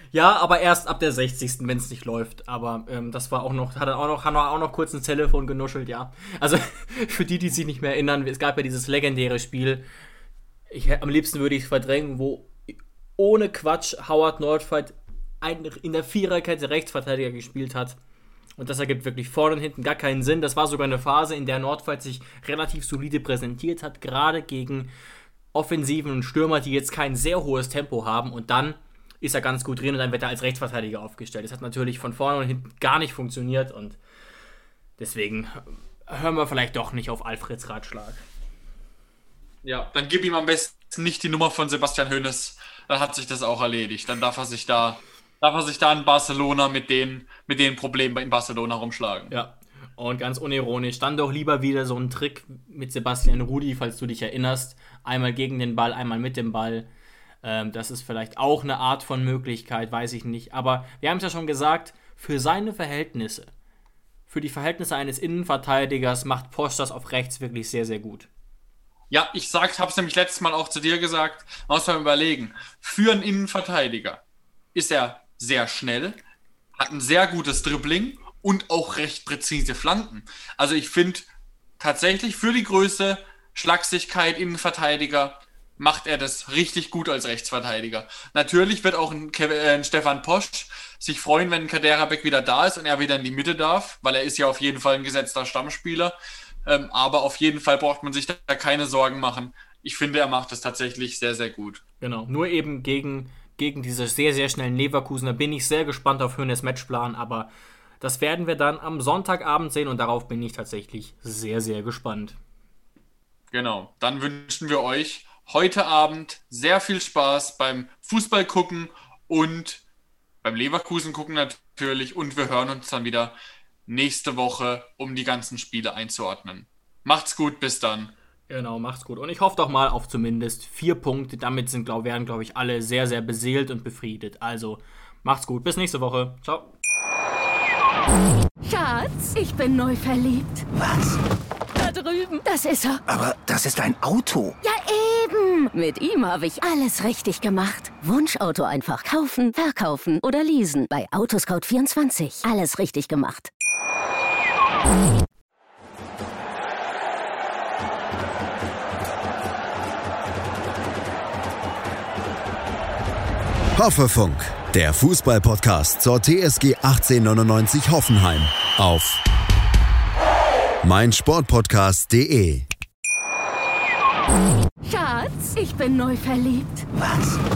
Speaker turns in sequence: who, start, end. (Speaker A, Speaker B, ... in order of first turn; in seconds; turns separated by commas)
Speaker A: 0.1-9.8, Speaker A: 10.7-18.0, Speaker A: 18.6-24.9, Speaker A: 25.5-34.0, Speaker A: 35.0-38.2, Speaker B: 39.6-49.3, Speaker A: 49.3-56.9, Speaker A: 57.4-63.5, Speaker A: 64.3-68.3, Speaker B: 69.1-74.2, Speaker B: 74.7-76.2, Speaker B: 76.8-81.3, Speaker B: 81.8-101.8, Speaker A: 102.0-112.4, Speaker B: 113.5-119.8, Speaker B: 120.4-123.3, Speaker B: 123.9-128.1, Speaker A: 128.5-136.7, Speaker C: 138.6-140.7, Speaker D: 140.7-141.2, Speaker C: 141.8-143.0, Speaker D: 143.1-144.6, Speaker C: 144.6-153.5, Speaker E: 163.8-169.2, Speaker E: 170.8-172.7, Speaker C: 174.8-176.9, Speaker D: 176.9-177.4